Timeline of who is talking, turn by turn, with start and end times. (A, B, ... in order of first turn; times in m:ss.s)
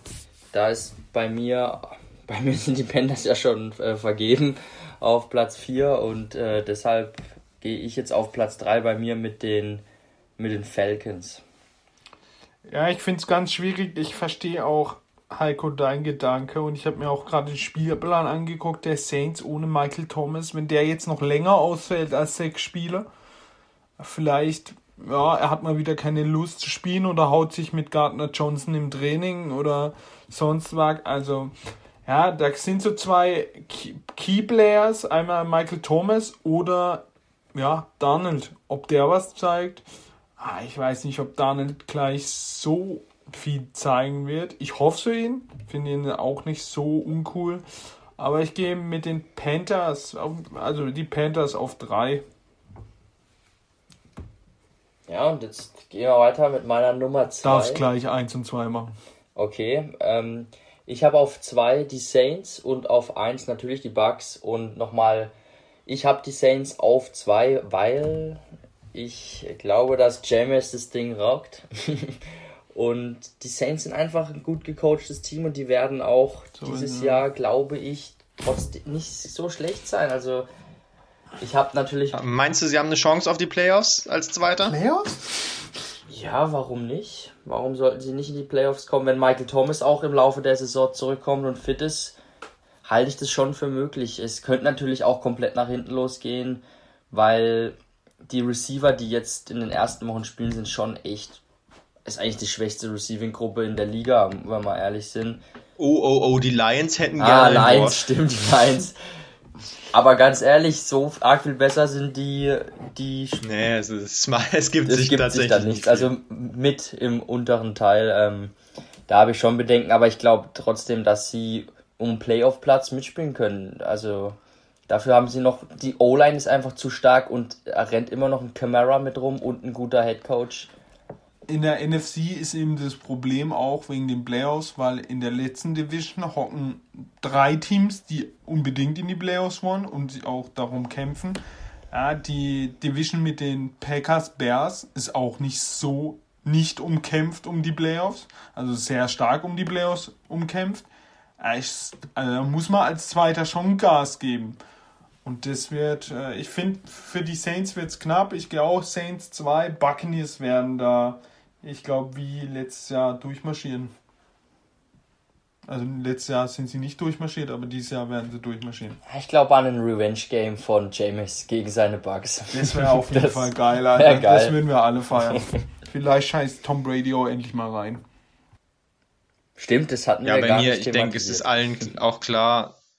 0:00.5-0:09.8 A
0:10.4-0:11.4 A
0:12.6-0:23.1 B
0:24.0-0:31.5 B
0:32.0-0:39.8 B
0:40.4-0:47.6 B
0:48.2-0:52.2 B
0:55.1-0:57.8 A
0:57.4-0:58.9 B
0:59.3-1:05.3 A
1:05.9-1:08.4 A
1:08.9-1:12.2 A
1:12.7-1:20.5 A
1:16.6-1:17.3 B
1:21.4-1:22.2 A
1:22.1-1:24.8 C
1:24.6-1:25.3 B
1:26.1-1:32.2 A
1:32.8-1:37.8 A
1:38.3-1:41.4 A
1:42.0-1:45.4 A
1:45.8-1:48.1 C
1:47.2-1:49.0 A
1:49.9-1:53.4 A
1:53.4-1:56.1 C
1:54.8-1:58.5 A
1:59.1-2:04.4 A
2:04.9-2:10.7 A
2:11.5-2:21.4 B
2:21.9-2:30.8 B
2:31.4-2:34.6 B
2:35.2-2:43.9 B
2:45.7-2:49.0 B
2:49.0-2:54.6 A
2:52.5-2:58.0 B
2:59.6-3:01.6 A
3:00.2-3:02.8 C